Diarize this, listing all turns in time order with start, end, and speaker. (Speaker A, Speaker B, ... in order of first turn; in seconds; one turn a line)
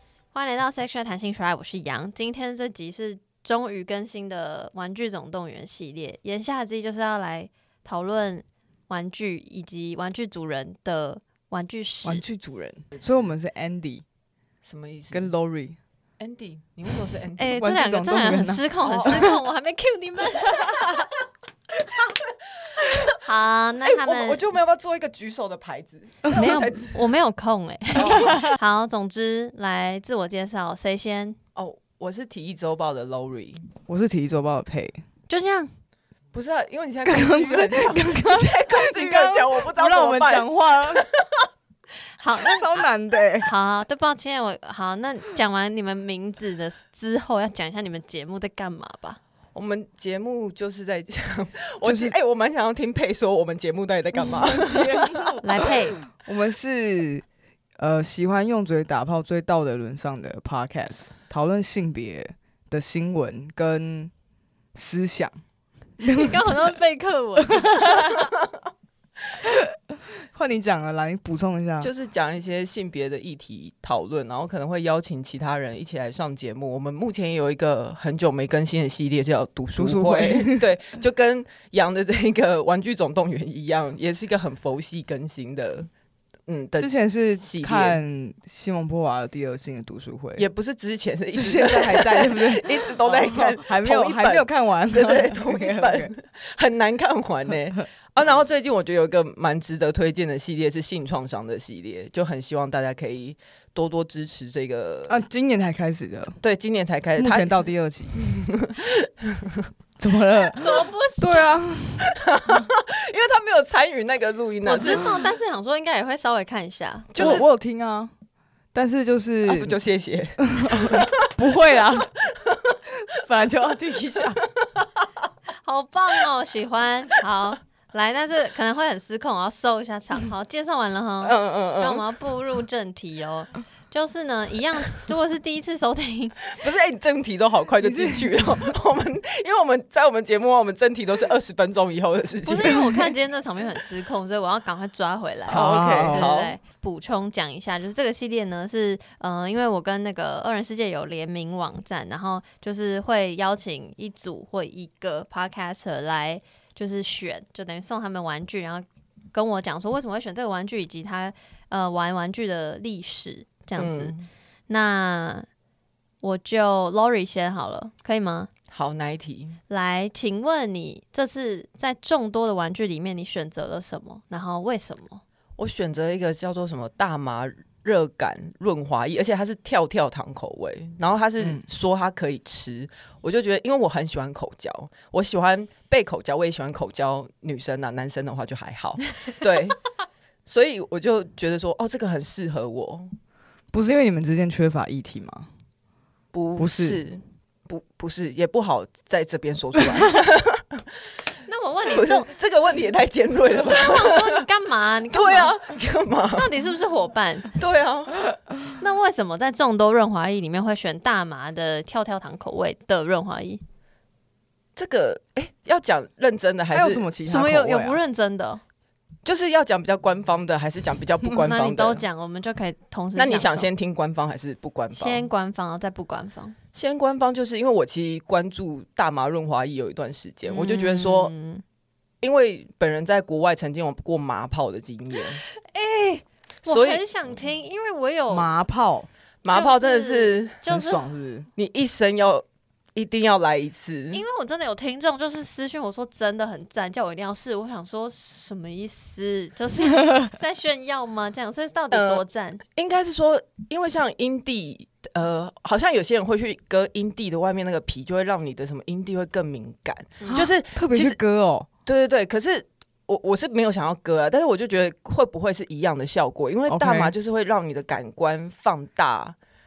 Speaker A: 0.3-12.2
Speaker B: 12.1-14.0
Speaker C: 12.9-13.3
Speaker C: 14.7-15.3
Speaker B: 15.1-15.8
Speaker C: 16.2-17.5
Speaker A: 17.4-20.9
Speaker B: 17.5-19.2
Speaker C: 18.8-19.3
Speaker C: 22.7-23.2
Speaker A: 23.2-24.4
Speaker C: 23.9-27.1
Speaker A: 26.3-31.4
Speaker C: 28.0-28.5
Speaker B: 28.1-28.5
Speaker C: 31.6-33.7
Speaker B: 33.9-35.0
Speaker A: 35.3-35.7
Speaker C: 36.3-41.5
Speaker B: 37.0-41.1
Speaker A: 42.2-42.8
Speaker B: 42.4-43.5
Speaker A: 43.4-49.2
Speaker C: 49.5-55.4
Speaker B: 51.8-52.1
Speaker B: 54.2-57.2
Speaker A: 55.4-56.0
Speaker B: 57.8-64.1
Speaker B: 64.7-65.3
Speaker B: 66.0-66.5
Speaker A: 66.1-68.2
Speaker B: 67.5-68.1
Speaker B: 69.4-69.8
Speaker B: 70.3-71.9
Speaker C: 71.8-85.9
Speaker B: 79.7-80.7
Speaker C: 86.5-88.0
Speaker B: 86.8-90.5
Speaker C: 90.4-105.2
Speaker B: 91.3-96.1
Speaker B: 105.1-106.4
Speaker C: 106.4-109.7
Speaker B: 107.2-108.2
Speaker B: 110.0-112.7
Speaker A: 110.6-111.5
Speaker C: 112.1-115.2
Speaker A: 114.6-117.4
Speaker C: 117.2-117.4
Speaker B: 117.2-118.1
Speaker B: 118.7-119.8
Speaker C: 119.5-122.8
Speaker B: 120.4-122.1
Speaker B: 123.0-124.4
Speaker A: 125.6-136.6
Speaker C: 131.2-132.1
Speaker C: 136.6-143.1
Speaker B: 137.8-138.5
Speaker A: 142.4-164.1
Speaker B: 145.5-146.3
Speaker C: 145.5-146.6
Speaker C: 163.8-164.3
Speaker A: 164.7-165.5
Speaker A: 166.2-168.5
Speaker C: 168.7-169.6
Speaker A: 169.7-175.2
Speaker C: 175.6-189.8
Speaker B: 181.4-181.7
Speaker C: 190.5-193.1
Speaker B: 193.7-195.5
Speaker C: 196.3-200.8
Speaker B: 196.6-197.0
Speaker B: 199.8-200.2
Speaker A: 201.5-202.3
Speaker C: 201.9-204.4
Speaker A: 203.6-205.6
Speaker C: 205.1-206.5
Speaker A: 206.4-207.5
Speaker C: 207.6-208.3
Speaker A: 208.8-213.6
Speaker C: 214.8-217.1
Speaker B: 216.7-218.0
Speaker A: 217.2-218.6
Speaker C: 219.2-222.1
Speaker A: 221.4-223.7
Speaker C: 223.2-225.3
Speaker A: 224.9-226.6
Speaker C: 226.7-231.3
Speaker A: 230.5-231.6
Speaker C: 232.2-235.4
Speaker A: 235.5-238.5
Speaker C: 236.7-237.0
Speaker B: 238.3-239.1
Speaker C: 239.4-240.6
Speaker A: 239.5-241.1
Speaker B: 240.7-241.5
Speaker C: 241.6-244.2
Speaker A: 244.1-252.6
Speaker C: 251.9-261.2
Speaker B: 260.3-261.7
Speaker C: 261.9-269.4
Speaker B: 266.7-267.1